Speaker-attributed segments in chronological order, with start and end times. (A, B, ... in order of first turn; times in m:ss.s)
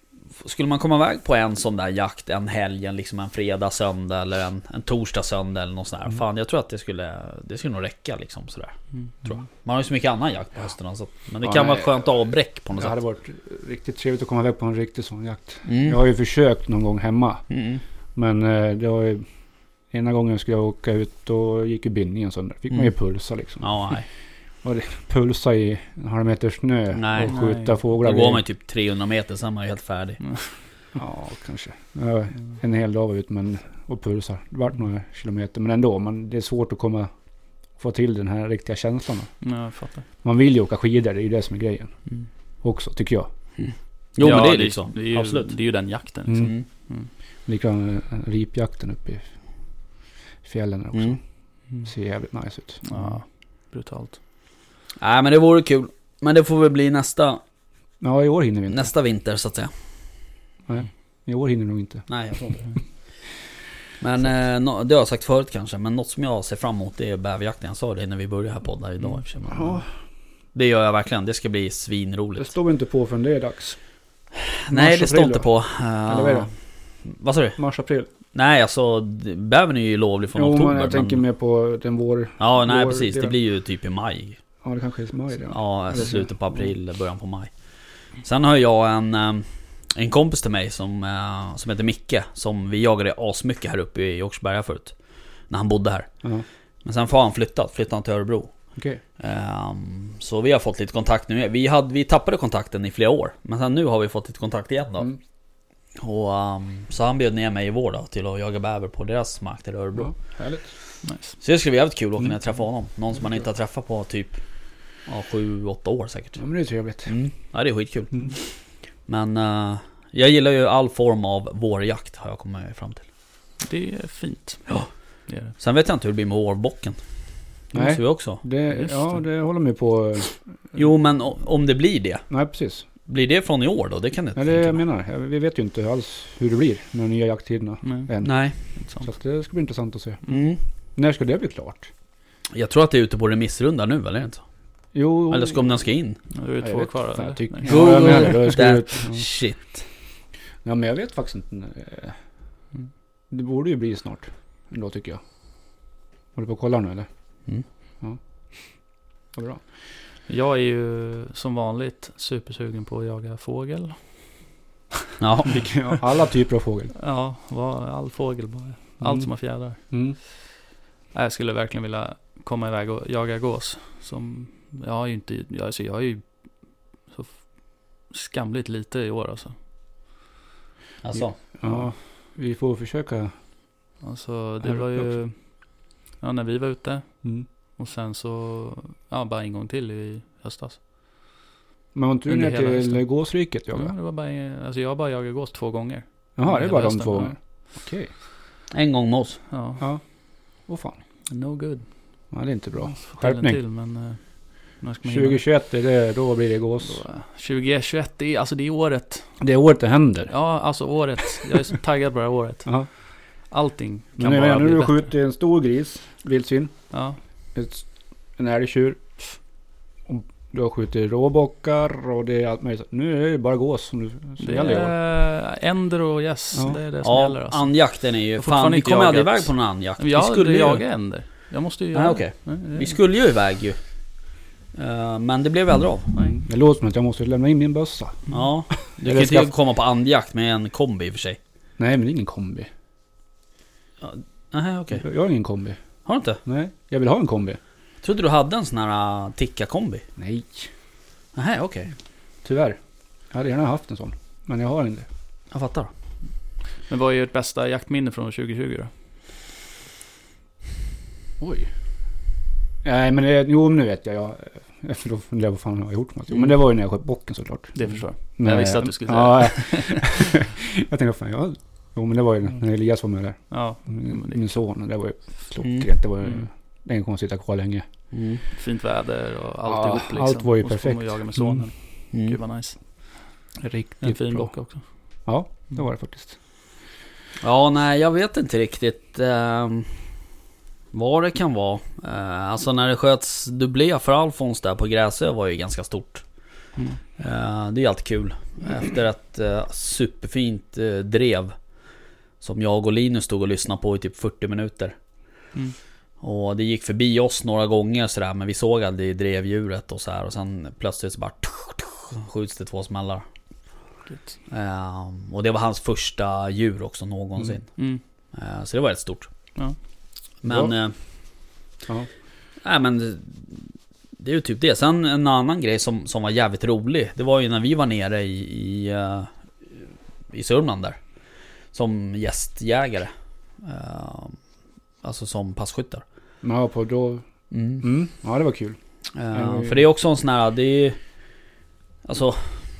0:00.4-0:13.0 A
0:11.4-0:12.0 B
0:12.8-0:17.4 B
0:15.6-0:16.0 A
0:17.5-0:17.8 A
0:18.2-0:19.2 B
0:19.9-0:23.7 B
0:23.6-0:24.0 A
0:24.6-0:28.4 B
0:26.9-0:27.4 A
0:27.3-0:27.8 C
0:28.0-0:30.2 A
0:31.0-0:37.1 B
0:37.8-0:39.3 B
0:39.4-0:40.0 C
0:40.2-0:41.9 B
0:42.6-0:43.3 B
0:43.6-0:45.5 A
0:44.2-0:47.1 C
0:46.3-0:46.5 B
0:47.5-0:49.2 B
0:50.4-0:51.2 B
0:50.9-0:51.2 A
0:51.8-0:52.9 B
0:52.8-0:54.2 C
0:55.0-0:57.4 A
0:58.0-0:58.9 B
0:58.7-0:59.7 A
1:00.7-1:02.1 B
1:02.1-1:02.7 A
1:04.0-1:09.8 A
1:09.5-1:09.8 B
1:10.6-1:12.5 A
1:12.4-1:13.8 B
1:14.4-1:16.5 A
1:14.7-1:15.5 B
1:16.1-1:16.5 B
1:17.1-1:17.6 A
1:17.6-1:18.1 B
1:18.3-1:21.2 A
1:20.4-1:23.4 B
1:22.4-1:24.4 A
1:24.6-1:26.6 B
1:25.5-1:27.5 A
1:28.2-1:34.9 A
1:35.5-1:36.1 A
1:36.8-1:38.5 A
1:38.8-1:39.0 B
1:39.2-1:45.1 A
1:46.0-1:50.1 A
1:50.0-1:50.7 B
1:51.0-1:51.4 C
1:51.4-1:54.4 A
1:55.1-1:56.4 A
1:56.4-1:57.1 B
1:57.1-1:58.5 A
1:59.1-2:03.0 A
2:03.6-2:04.7 C
2:05.3-2:05.6 C
2:05.6-2:07.0 A
2:07.7-2:08.4 A
2:07.7-2:10.8 B
2:08.7-2:09.2 C
2:10.8-2:12.2 A
2:12.3-2:12.8 B
2:13.1-2:14.8 A
2:14.4-2:18.4 B
2:17.8-2:18.1 C
2:18.2-2:18.6 A
2:18.8-2:19.1 C
2:19.0-2:20.2 B
2:20.3-2:20.6 A
2:21.0-2:21.9 B
2:22.5-2:24.4 A
2:24.9-2:25.7 B
2:25.3-2:26.2 A
2:26.3-2:27.8 C
2:26.6-2:29.2 B
2:27.6-2:29.9 A
2:30.6-2:32.2 B
2:33.3-2:35.2 B
2:36.4-2:37.1 B
2:39.3-2:39.6 B
2:40.3-2:44.0 C
2:45.2-2:45.6 A
2:45.4-2:46.9 B
2:47.0-2:49.8 C
2:49.0-2:49.3 B
2:49.8-2:50.2 B
2:51.1-2:56.5 C
2:57.1-2:59.6 C
3:01.0-3:01.4 A
3:01.2-3:03.3 B
3:04.0-3:10.8 C
3:04.6-3:05.1 B
3:12.0-3:13.9 B
3:12.3-3:13.1 C
3:13.7-3:17.3 C
3:16.4-3:18.1 B
3:18.7-3:19.4 A
3:19.5-3:19.8 C
3:20.7-3:21.0 B
3:21.3-3:21.9 C
3:22.3-3:23.6 B
3:22.9-3:25.4 C
3:25.0-3:27.0 B
3:26.8-3:29.3 C
3:29.4-3:30.3 B
3:30.3-3:32.9 C
3:33.5-3:35.1 C
3:34.2-3:36.8 B
3:36.9-3:37.2 C
3:37.6-3:39.0 B
3:40.1-3:44.9 B
3:44.4-3:47.7 C
3:47.0-3:50.8 A
3:48.4-3:53.0 C
3:51.9-3:53.8 A
3:54.7-3:56.1 A
3:56.4-3:58.3 B
3:58.3-4:01.4 A
3:58.9-3:59.5 B
4:01.8-4:02.7 B
4:04.0-4:05.0 A
4:05.0-4:05.8 B
4:06.0-4:06.4 A
4:06.4-4:07.6 B
4:08.0-4:10.0 A
4:10.2-4:10.7 B
4:11.4-4:11.9 A
4:12.4-4:12.8 B
4:13.3-4:15.1 B
4:15.5-4:15.9 A
4:16.9-4:18.9 C
4:21.4-4:21.7 B
4:22.8-4:37.8 B
4:27.8-4:30.2 C
4:33.5-4:34.5 C
4:35.6-4:35.9 A
4:38.1-4:38.4 A
4:38.5-4:42.8 C
4:39.7-4:41.6 B
4:42.1-4:42.4 A
4:43.6-4:44.5 B
4:44.0-4:44.8 C
4:45.3-4:46.4 B
4:47.4-4:50.0 A
4:50.9-4:56.2 A
4:57.2-5:01.6 A
5:02.4-5:05.0 A
5:06.2-5:13.2 A
5:14.1-5:14.4 C
5:14.5-5:17.7 A
5:17.8-5:18.0 C
5:18.3-5:19.3 A
5:20.4-5:21.0 A
5:20.4-5:20.7 B
5:22.6-5:23.7 A
5:24.2-5:31.0 A
5:31.7-5:33.1 A
5:33.6-5:34.4 A
5:35.0-5:36.0 A
5:36.4-5:37.2 B
5:37.5-5:37.8 A
5:37.8-5:38.8 B
5:39.2-5:41.0 A
5:39.3-5:39.8 B
5:42.0-5:42.5 A